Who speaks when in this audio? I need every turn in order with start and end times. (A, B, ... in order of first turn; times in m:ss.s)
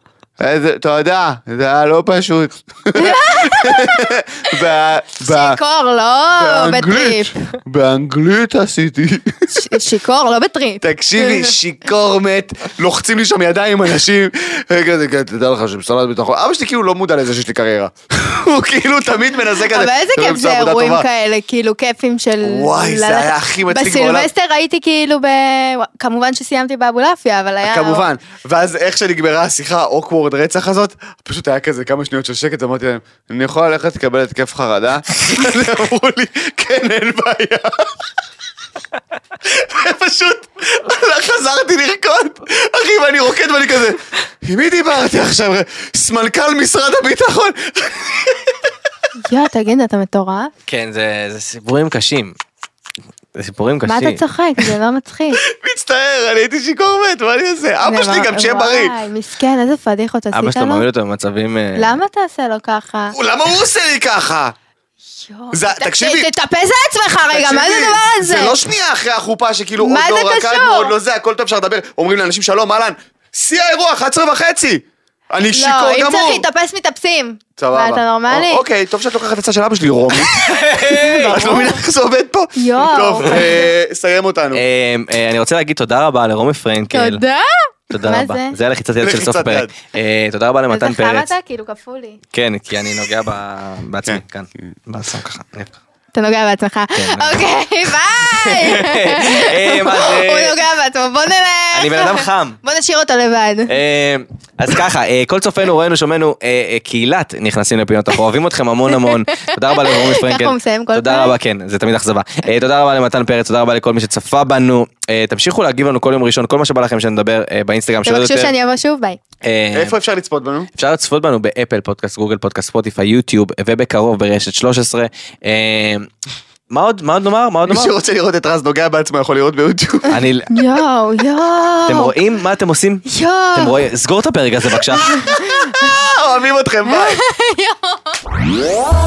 0:00.4-0:05.6 A
0:03.0-0:04.5 B
0:05.2-0:07.3 B
0:06.3-0:09.6 A
0:09.5-0:11.6 B
0:10.8-0:21.1 A
0:19.7-0:28.1 B
0:22.4-0:24.3 A
0:27.6-0:38.0 A
0:39.4-0:48.7 A
0:49.2-0:50.5 B
0:50.7-0:52.4 C
0:53.4-0:54.2 C
0:53.8-0:55.4 B
0:55.4-0:58.9 A
0:57.8-1:00.8 B
1:00.3-1:02.0 C
1:01.8-1:03.2 B
1:03.1-1:04.6 A
1:05.2-1:08.6 B
1:05.5-1:06.3 A
1:07.3-1:16.4 A
1:09.8-1:11.0 B
1:15.5-1:18.6 B
1:17.6-1:20.7 A
1:20.3-1:21.4 C
1:20.8-1:21.8 B
1:21.2-1:24.6 A
1:22.6-1:23.6 B
1:24.5-1:27.2 C
1:26.9-1:28.6 B
1:27.9-1:31.3 C
1:29.0-1:29.7 A
1:30.7-1:32.2 B
1:32.3-1:35.8 C
1:34.1-1:34.7 A
1:36.1-1:43.7 B
1:37.0-1:37.4 C
1:38.2-1:40.6 C
1:41.7-1:42.6 C
1:43.7-1:58.5 C
1:48.9-1:51.4 B
1:58.0-1:59.2 B
1:59.4-2:00.0 C
1:59.7-2:00.7 A
2:00.8-2:06.1 C
2:06.7-2:07.9 C
2:07.6-2:10.2 A
2:10.1-2:10.5 C
2:10.5-2:12.1 B
2:11.9-2:15.2 C
2:13.1-2:13.8 B
2:15.0-2:17.2 A
2:15.1-2:15.9 B
2:16.9-2:18.2 B